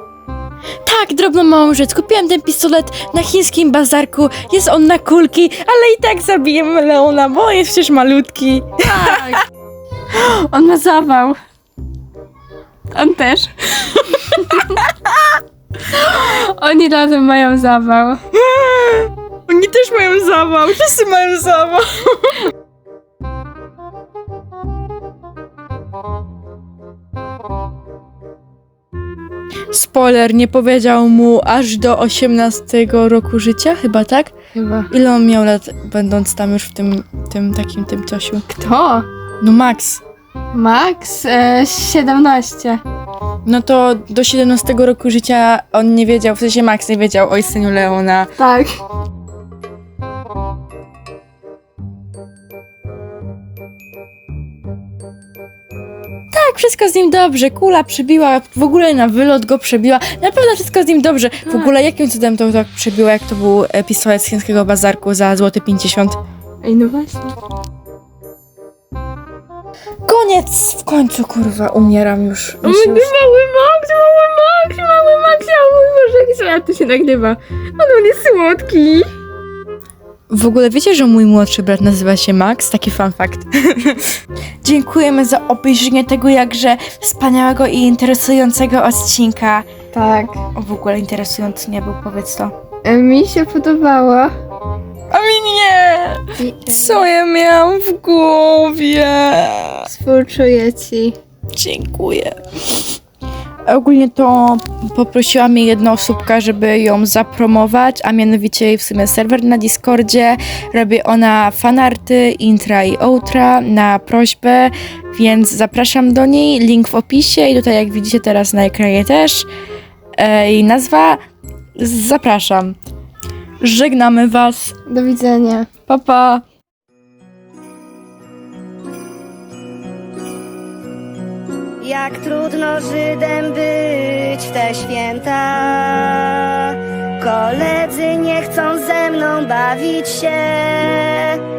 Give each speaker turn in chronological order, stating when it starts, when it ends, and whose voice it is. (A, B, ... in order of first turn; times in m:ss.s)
0:00.8-0:09.2 A
0:08.8-0:09.4 B
0:10.1-0:11.4 B
0:12.9-0:14.8 B
0:15.9-0:18.2 B
0:18.3-0:22.4 A
0:29.7-0:34.3 A
0:34.5-0:34.9 B
0:34.9-0:38.4 A
0:38.5-0:39.0 B
0:39.4-0:40.0 A
0:40.5-0:42.8 B
0:43.4-0:48.3 A
0:48.4-0:48.8 B
0:56.3-1:06.2 A
1:06.6-1:07.4 B
1:10.1-1:13.1 A
1:12.6-1:19.1 B
1:20.3-1:24.1 A
1:24.6-1:29.7 A
1:29.9-1:30.4 B
1:30.5-1:32.5 A
1:32.8-1:34.3 B
1:35.1-1:39.8 A
1:36.4-1:37.1 B
1:39.8-1:41.2 B
1:41.6-1:42.4 A
1:43.7-1:59.5 A
2:00.2-2:01.2 A
2:01.8-2:02.8 A
2:03.6-2:04.7 A
2:04.9-2:06.4 B
2:11.8-2:21.4 C